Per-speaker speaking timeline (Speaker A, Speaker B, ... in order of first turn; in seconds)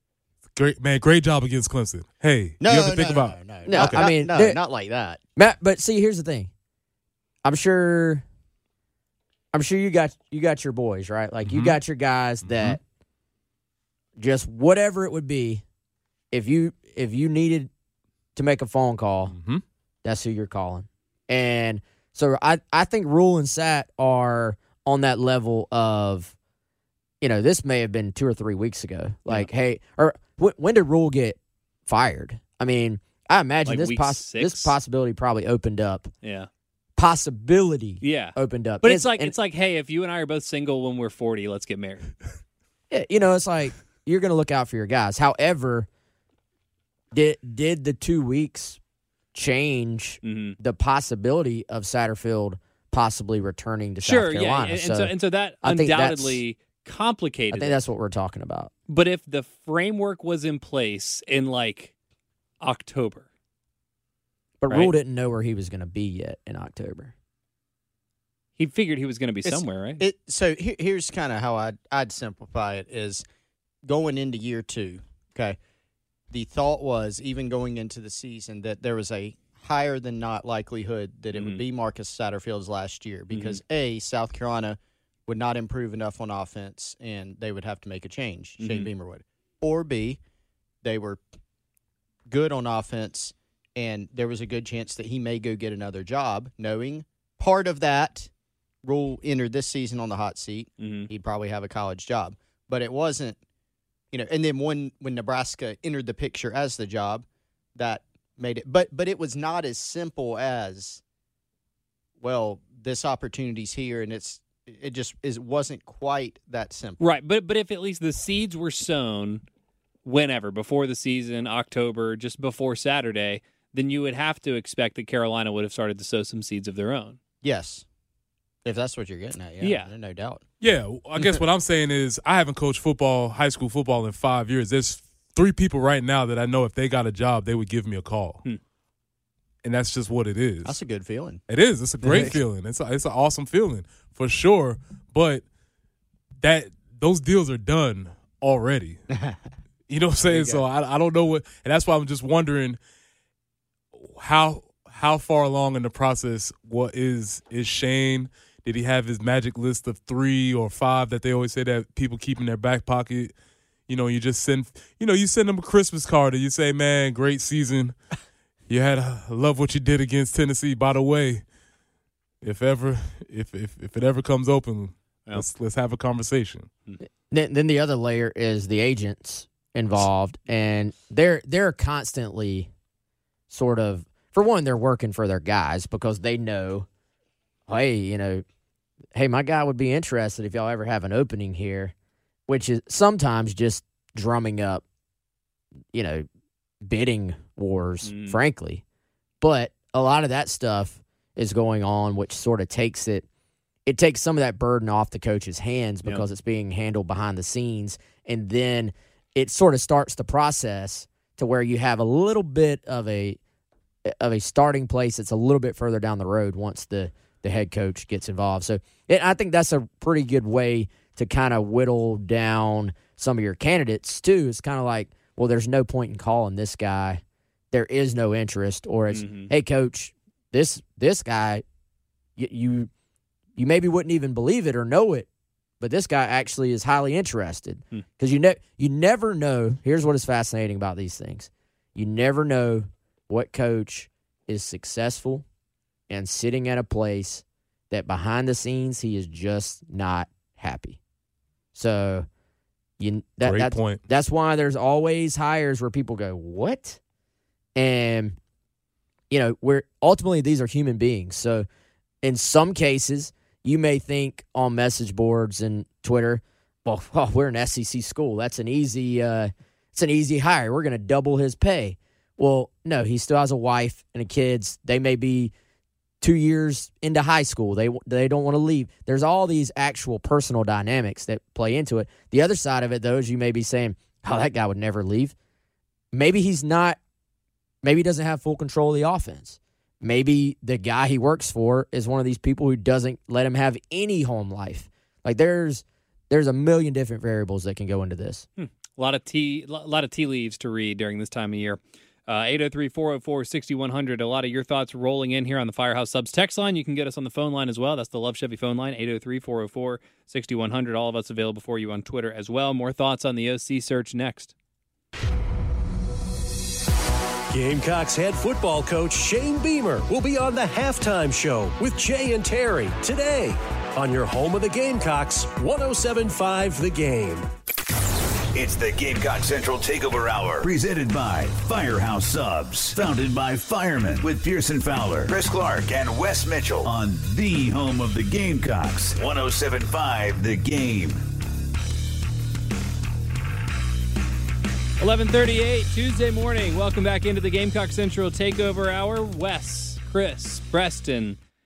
Speaker A: 0.6-4.1, 11.4-11.8, 12.4-12.8, 19.3-19.6, 130.6-138.4, 139.6-140.8, 141.5-145.4, 146.4-149.0, 149.9-152.8, 154.2-163.3, 163.9-168.0, 168.7-171.4, 172.4-176.7, 253.4-254.0
Speaker B: 2.6-5.2, 69.5-73.2, 73.9-75.6, 76.3-90.2, 90.8-91.2, 92.3-98.3, 98.8-103.4, 104.1-111.0, 112.2-117.0, 127.4-127.8, 128.7-130.4, 140.7-141.4, 142.0-142.4, 150.2-150.6
Speaker C: 3.6-4.6, 5.4-6.5, 7.4-8.2, 9.5-12.8, 14.2-15.6, 16.3-17.7, 18.4-19.4, 20.0-26.3, 27.2-36.1, 37.0-39.3, 42.9-45.9, 47.1-48.8, 49.3-56.4, 57.5-58.7, 64.6-67.1, 177.3-182.7, 183.5-186.9, 187.7-188.4, 189.1-191.9, 192.5-194.8, 195.9-196.3, 196.8-198.8, 199.4-203.3, 203.9-213.4, 214.1-231.6, 232.4-232.9, 233.6-235.3, 235.8-245.4, 246.1-251.0, 251.8-252.3, 253.0-257.0, 257.8-258.4, 259.3-261.7, 262.2-275.5, 276.2-285.4, 286.1-287.0, 287.8-298.5
Speaker D: 33.7-34.8, 36.2-36.5, 38.0-42.1, 50.2-50.6, 54.0-57.8, 58.9-61.9, 62.6-63.3, 64.7-65.0, 68.6-70.0, 81.3-81.6, 83.3-83.6, 88.6-88.9, 100.8-101.1, 117.0-119.4, 120.0-127.2, 129.6-129.9, 198.0-198.4, 229.1-229.5, 298.6-314.5, 345.0-351.4
Speaker E: 317.5-327.5
Speaker F: 328.5-341.2